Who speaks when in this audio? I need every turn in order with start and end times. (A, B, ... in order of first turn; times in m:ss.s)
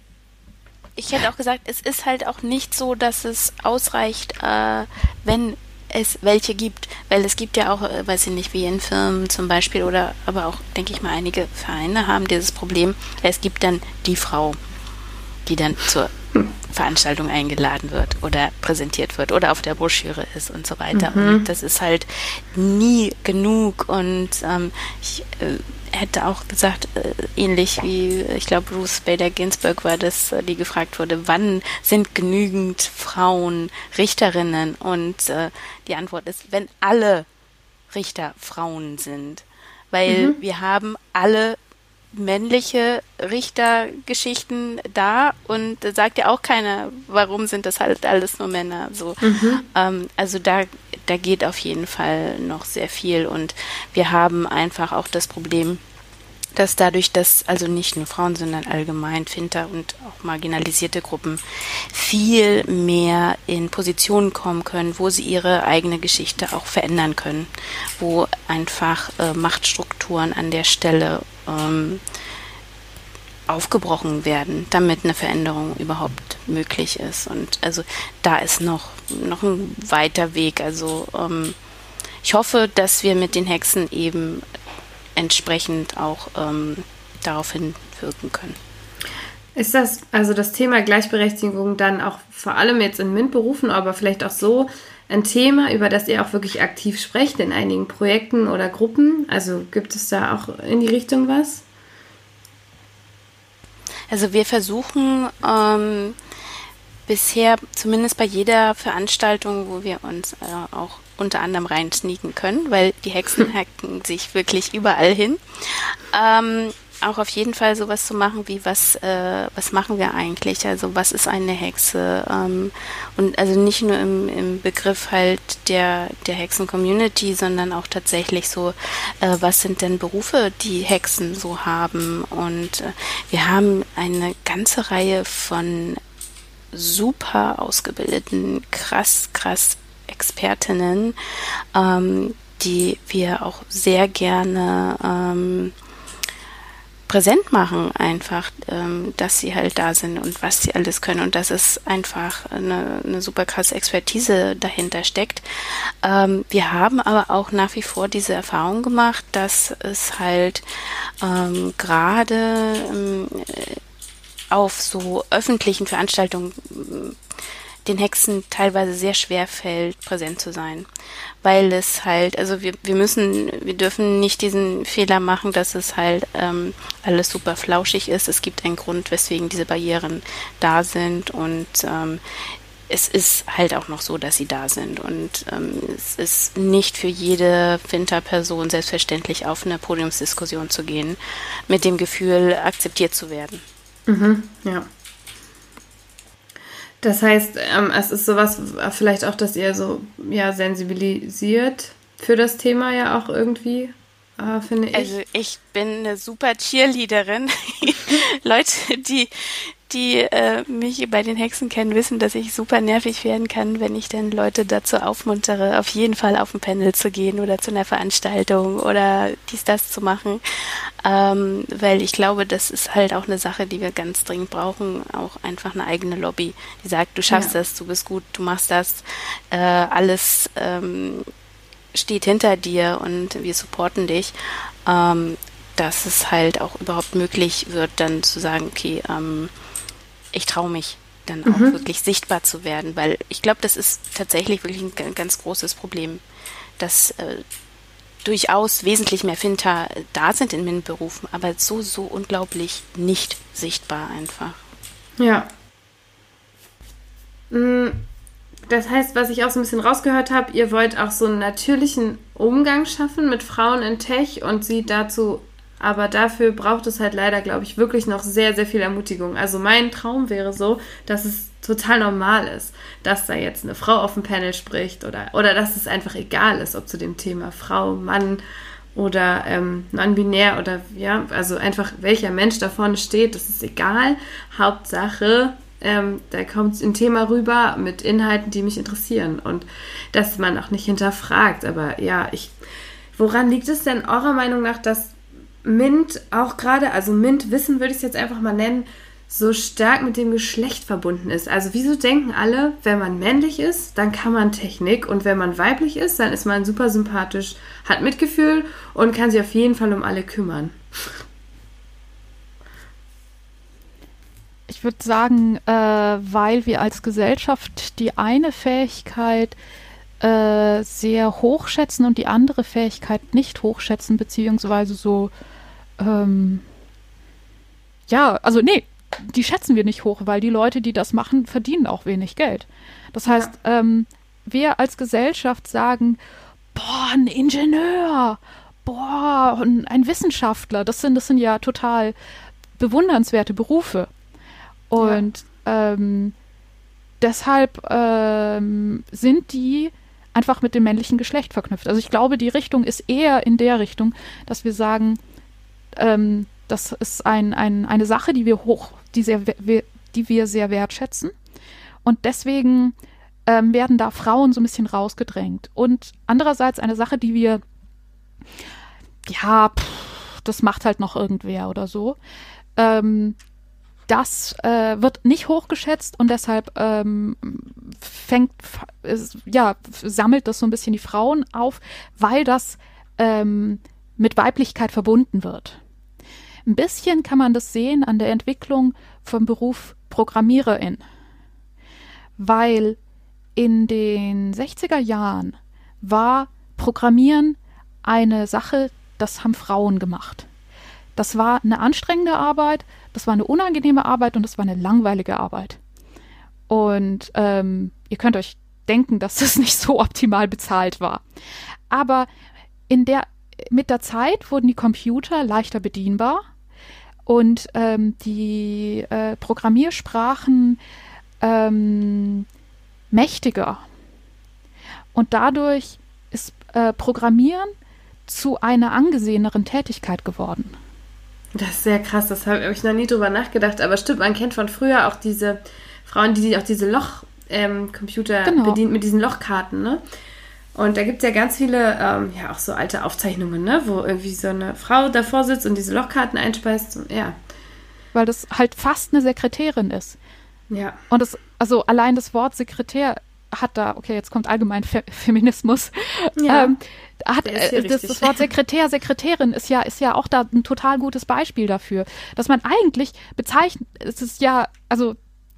0:01.0-0:14.6 A
0:15.4-0:16.1 A
0:16.7-0:37.2 A
0:20.9-0:21.4 B
0:37.9-0:41.6 A
0:40.0-0:40.4 B
0:42.1-0:55.8 A
0:49.2-0:49.6 B
0:56.6-1:12.0 A
1:13.5-1:21.5 A
1:22.2-1:24.4 A
1:25.2-1:28.6 A
1:29.6-1:41.6 B
1:44.1-1:46.1 A
1:47.1-2:16.0 A
2:16.7-2:21.2 A
2:21.7-2:25.7 A
2:27.1-2:35.4 A
2:36.0-2:40.6 A
2:41.2-2:43.8 A
2:44.5-2:47.2 A
2:47.8-2:50.9 A
2:51.4-3:02.2 A
3:02.9-3:13.6 A
3:14.1-3:14.8 B
3:17.0-3:25.2 B
3:24.9-3:51.3 A
3:51.9-3:54.3 A
3:54.8-3:59.5 A
4:00.3-4:06.2 A
4:01.4-4:01.7 B
4:06.8-4:07.4 A
4:08.2-4:14.6 A
4:15.2-4:15.5 B
4:17.5-4:18.0 B
4:18.7-4:38.4 B
4:38.9-4:52.5 B
4:53.1-5:10.8 B
5:14.7-5:19.6 C
5:20.2-5:25.3 C
5:26.0-5:26.6 C
5:28.1-5:36.2 C
5:33.2-5:33.5 B
5:36.7-5:42.1 C
5:42.8-5:44.1 C
5:44.9-5:46.3 C
5:45.0-5:45.2 B
5:47.2-5:55.2 C
5:56.0-6:01.3 C
6:02.0-6:02.9 C
6:03.5-6:07.6 C
6:09.3-6:12.2 C
6:12.8-6:13.4 C
6:14.1-6:25.8 C
6:26.6-6:31.0 C
6:32.4-6:33.0 C
6:33.6-6:40.5 C
6:41.2-6:45.8 C
6:46.7-6:51.2 C
6:51.9-6:52.3 C
6:52.9-6:56.4 C
6:57.2-7:00.8 C
7:01.4-7:02.4 C
7:03.1-7:03.8 C
7:05.1-7:07.7 C
7:08.2-7:10.8 C
7:11.6-7:20.0 B
7:18.4-7:18.8 C
7:20.7-7:27.4 B
7:28.1-7:30.2 C
7:30.7-7:31.0 B
7:31.1-7:45.2 C
7:36.4-7:36.8 B
7:37.4-7:38.4 B